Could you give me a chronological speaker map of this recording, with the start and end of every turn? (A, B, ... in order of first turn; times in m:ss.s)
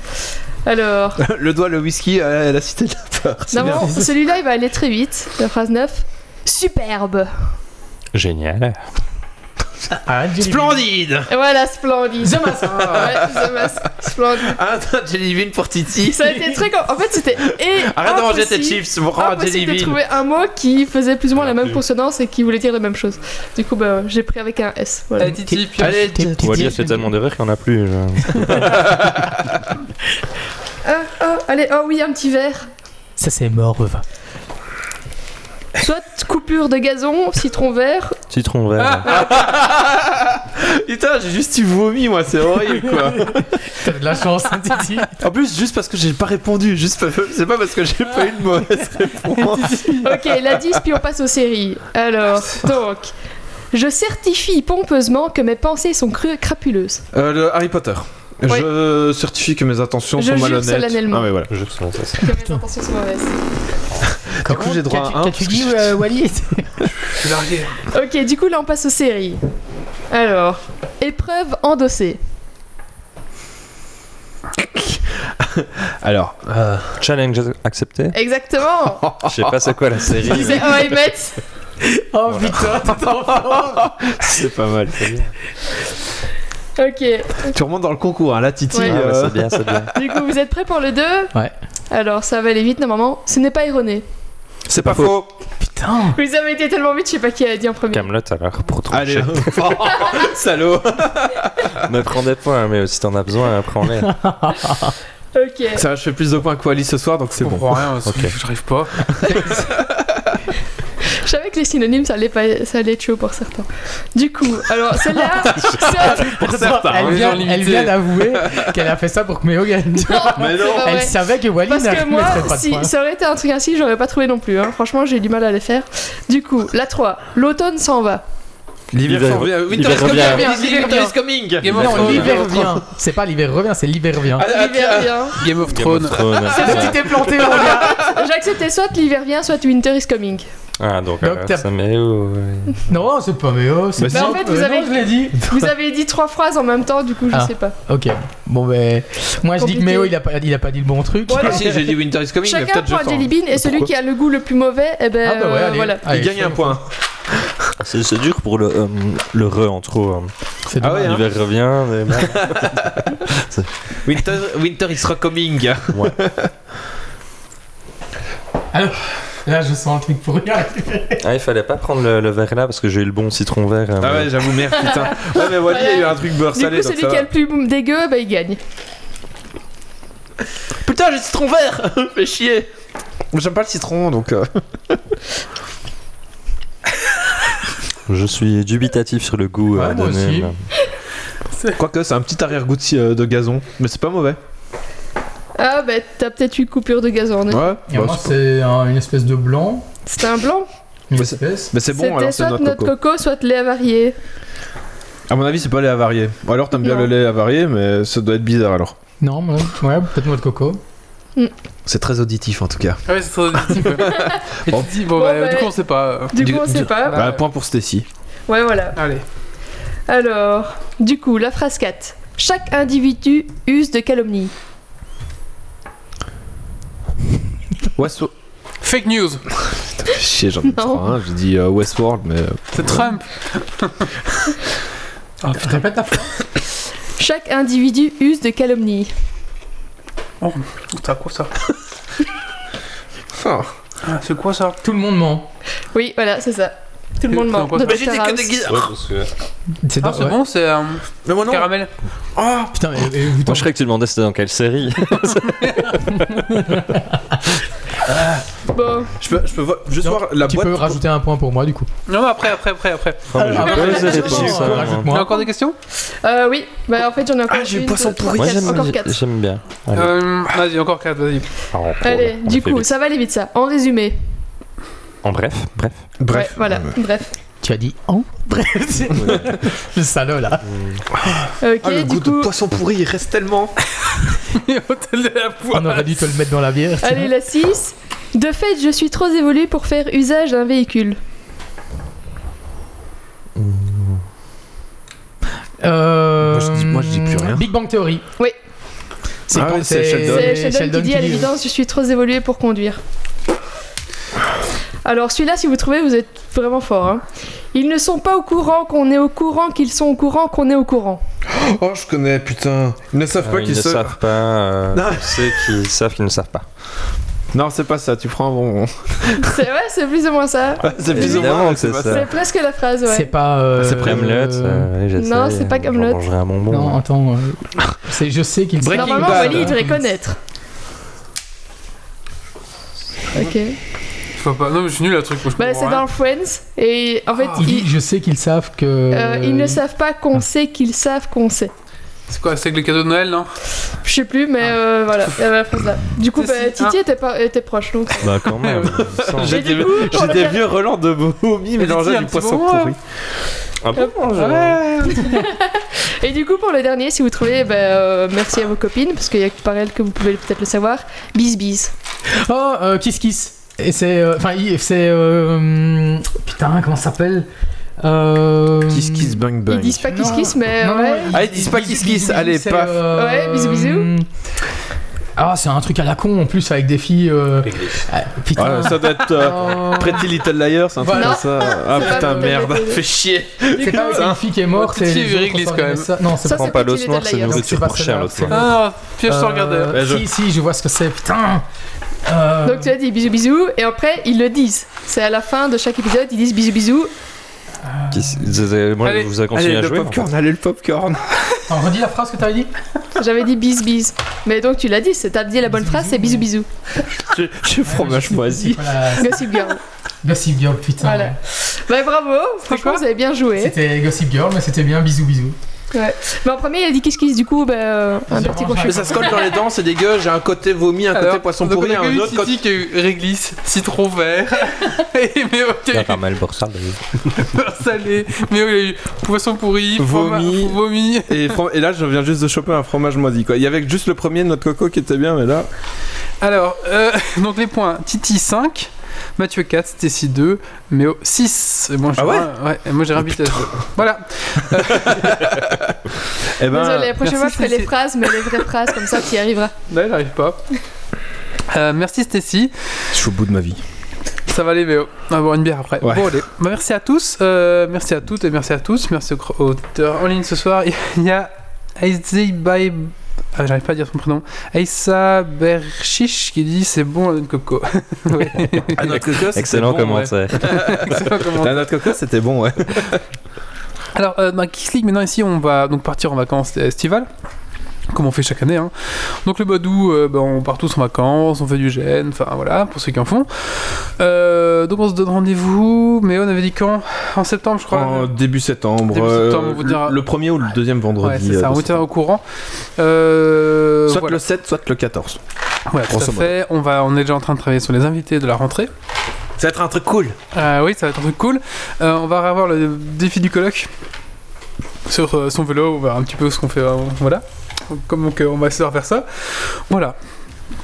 0:00.6-0:01.2 A
0:01.2-0:04.0 B
0:03.5-0:07.3 A
0:03.6-0:04.0 C
0:08.1-0:08.8 D
0:10.0-0:10.8 C
0:10.4-0:11.3 B
0:11.3-0:14.6 A
0:12.2-0:13.2 C
0:12.6-0:13.9 B
0:14.4-0:16.3 B
0:16.1-0:25.4 A
0:16.3-0:16.6 C
0:17.5-0:20.0 B
0:21.4-0:21.8 D
0:25.2-0:26.1 E
0:25.5-0:27.1 C
0:25.8-0:26.8 B
0:26.4-0:28.8 D
0:28.6-0:29.3 B
0:30.8-0:32.7 A
0:33.2-0:34.0 C
0:35.8-0:38.2 A
0:38.3-0:39.1 D
0:39.1-0:39.3 A
0:39.1-0:43.6 B
0:43.7-0:45.1 C
0:45.2-0:50.8 B
0:49.4-0:50.1 E
0:50.0-0:53.1 A
0:53.7-0:57.0 A
0:57.1-1:01.5 B
1:00.2-1:01.3 A
1:01.5-1:02.3 D
1:02.2-1:03.4 A
1:02.3-1:02.6 C
1:04.3-1:06.0 B
1:04.4-1:06.9 C
1:07.0-1:07.8 E
1:07.9-1:09.4 A
1:10.1-1:12.2 A
1:14.6-1:17.0 B
1:17.0-1:18.2 D
1:18.1-1:19.1 A
1:19.0-1:19.6 B
1:19.2-1:20.9 D
1:20.1-1:20.6 B
1:20.3-1:21.4 A
1:21.8-1:24.0 C
1:22.3-1:22.6 D
1:23.4-1:25.2 B
1:25.0-1:25.3 D
1:26.8-1:27.6 A
1:27.5-1:29.9 B
1:28.7-1:29.0 A
1:28.8-1:29.9 D
1:29.9-1:31.3 A
1:31.9-1:34.0 A
1:34.7-1:35.3 B
1:34.7-1:35.2 D
1:35.6-1:36.2 C
1:36.1-1:38.1 A
1:37.9-1:39.8 D
1:38.9-1:41.8 B
1:41.8-1:44.1 D
1:44.1-1:44.9 C
1:45.3-1:45.8 A
1:45.8-1:47.8 B
1:47.4-1:49.6 E
1:48.1-1:48.4 D
1:51.1-1:56.3 A
1:55.6-1:57.5 B
1:56.1-2:02.9 C
1:57.0-1:58.0 E
1:58.3-1:58.7 B
2:00.1-2:08.2 A
2:00.4-2:01.0 B
2:08.9-2:12.8 B
2:09.0-2:10.5 D
2:09.9-2:11.2 C
2:11.6-2:12.7 E
2:11.7-2:14.5 C
2:14.4-2:15.4 B
2:14.4-2:15.4 A
2:15.4-2:16.4 E
2:15.6-2:17.3 D
2:16.3-2:18.1 B
2:16.5-2:20.5 A
2:16.6-2:18.1 C
2:20.8-2:22.8 D
2:21.2-2:21.6 C
2:22.9-2:25.4 C
2:24.0-2:24.4 B
2:24.1-2:27.8 A
2:25.4-2:25.7 B
2:27.3-2:31.7 C
2:29.6-2:30.2 A
2:31.3-2:36.0 A
2:31.4-2:33.9 B
2:35.2-2:36.8 C
2:36.1-2:37.7 B
2:37.8-2:40.3 D
2:40.7-2:41.2 C
2:40.8-2:41.3 B
2:40.9-2:43.7 D
2:42.4-2:43.0 B
2:44.0-2:46.5 B
2:45.9-2:46.2 D
2:48.7-2:51.2 C
2:51.2-2:54.5 D
2:54.0-2:57.3 B
2:55.1-2:58.6 A
3:00.8-3:02.7 B
3:03.3-3:05.0 B
3:08.1-3:10.6 D
3:09.7-3:10.5 C
3:11.8-3:14.4 B
3:15.6-3:17.7 A
3:17.5-3:18.4 B
3:17.9-3:19.9 C
3:20.1-3:20.7 A
3:21.1-3:21.7 C
3:21.2-3:22.9 B
3:21.9-3:24.2 A
3:25.3-3:29.0 B
3:26.8-3:27.1 A
3:29.2-3:30.8 C
3:31.9-3:33.0 B
3:33.1-3:37.4 E
3:33.7-3:34.9 B
3:34.2-3:34.4 A
3:35.0-3:35.7 A
3:36.3-3:37.3 A
3:36.4-3:38.1 B
3:38.5-3:39.0 A
3:39.0-3:39.2 E
3:40.1-3:44.5 A
3:48.0-3:48.3 B
3:48.8-3:49.4 E
3:49.6-3:53.1 B
3:50.7-3:51.0 A
3:52.7-3:54.1 E
3:55.4-3:55.8 E
3:55.5-3:56.4 C
3:57.2-3:59.1 A
4:00.4-4:01.6 E
4:03.3-4:03.7 B
4:04.0-4:04.8 E
4:04.8-4:05.5 C
4:05.9-4:08.8 A
4:07.3-4:08.0 E
4:07.8-4:08.9 B
4:08.7-4:09.3 D
4:09.8-4:10.4 C
4:10.0-4:11.9 E
4:11.3-4:11.7 B
4:12.4-4:12.8 B
4:12.7-4:13.7 C
4:13.4-4:16.8 D
4:15.5-4:15.8 E
4:16.3-4:17.4 C
4:18.1-4:18.4 B
4:18.7-4:19.2 A
4:19.2-4:21.0 B
4:20.0-4:21.9 C
4:22.1-4:25.8 E
4:23.3-4:25.2 D
4:23.4-4:25.5 C
4:26.2-4:29.2 A
4:27.5-4:29.0 B
4:28.4-4:30.2 D
4:30.0-4:31.5 E
4:31.7-4:32.9 D
4:32.0-4:34.2 A
4:35.2-4:36.0 D
4:36.2-4:37.0 B
4:36.3-4:37.4 A
4:37.6-4:40.7 C
4:39.2-4:39.6 B
4:40.7-4:41.0 D
4:41.1-4:43.8 B
4:41.6-4:42.5 A
4:44.0-4:46.3 E
4:45.7-4:47.3 C
4:47.0-4:51.2 A
4:53.6-4:54.2 D
4:55.8-4:58.2 C
4:56.4-4:57.6 B
4:59.5-5:01.5 C
4:59.5-5:00.5 B
5:00.2-5:03.0 A
5:05.0-5:11.2 A
5:11.5-5:14.2 B
5:13.4-5:16.7 D
5:14.9-5:15.7 B
5:17.5-5:19.5 B
5:19.3-5:23.3 A
5:20.8-5:22.3 B
5:21.0-5:22.3 D
5:23.1-5:24.9 C
5:23.8-5:24.3 B
5:23.8-5:27.0 D
5:25.2-5:26.2 A
5:26.7-5:30.0 C
5:28.8-5:29.8 B
5:28.9-5:30.4 A
5:33.4-5:33.8 A
5:34.4-5:36.1 E
5:35.6-5:37.9 A
5:37.3-5:37.7 E
5:37.6-5:39.8 C
5:39.1-5:41.7 A
5:42.3-5:43.5 E
5:44.0-5:48.5 A
5:46.3-5:47.0 E
5:48.2-5:49.9 D
5:48.4-5:48.9 E
5:48.9-5:53.0 B
5:49.4-5:50.7 A
5:51.8-5:53.0 E
5:53.8-5:54.9 D
5:54.3-5:55.4 E
5:55.1-6:01.9 A
6:02.3-6:07.5 C
6:08.0-6:09.4 C
6:08.9-6:10.2 B
6:09.7-6:11.4 A
6:10.1-6:14.3 C
6:11.3-6:13.1 B
6:13.1-6:14.1 A
6:15.4-6:20.4 C
6:17.6-6:18.0 D
6:18.6-6:24.4 B
6:21.0-6:22.4 C
6:21.1-6:23.0 A
6:23.8-6:24.2 A
6:23.8-6:26.9 C
6:24.7-6:26.1 E
6:26.4-6:27.8 A
6:26.4-6:28.7 D
6:27.4-6:31.6 C
6:28.5-6:30.0 E
6:29.9-6:30.3 B
6:32.3-6:32.9 C
6:32.6-6:37.1 A
6:37.8-6:38.5 C
6:38.1-6:40.2 D
6:39.0-6:39.3 E
6:39.5-6:41.3 B
6:41.7-6:42.7 C
6:43.2-6:46.7 A
6:45.7-6:46.5 C
6:47.2-6:49.0 B
6:47.8-6:49.6 C
6:49.2-6:49.8 A
6:50.2-6:51.4 C
6:51.0-6:53.8 A
6:52.7-6:53.0 E
6:53.6-6:55.6 C
6:55.9-6:59.6 A
6:58.3-6:59.4 C
6:58.9-7:02.6 B
7:01.1-7:06.2 E
7:05.9-7:07.3 D
7:07.4-7:11.6 E
7:10.0-7:15.7 B
7:16.4-7:25.6 E
7:22.2-7:22.5 B
7:23.2-7:23.9 B
7:24.9-7:26.0 B
7:26.6-7:27.2 B
7:26.7-7:29.7 A
7:27.2-7:28.4 E
7:29.9-7:30.6 E
7:31.7-7:32.7 E
7:33.1-7:33.8 B
7:34.5-7:49.4 E
7:36.0-7:36.3 B
7:48.9-7:53.2 B
7:49.5-7:50.8 D
7:50.6-7:52.0 E
7:54.1-7:57.3 E
7:58.1-8:08.4 E
8:07.9-8:12.0 B
8:09.1-8:10.2 E
8:11.2-8:12.4 E
8:13.0-8:14.4 E
8:14.1-8:15.4 B
8:15.9-8:18.9 E
8:16.1-8:16.5 B
8:19.6-8:20.4 B
8:20.5-8:23.9 E
8:25.1-8:30.2 E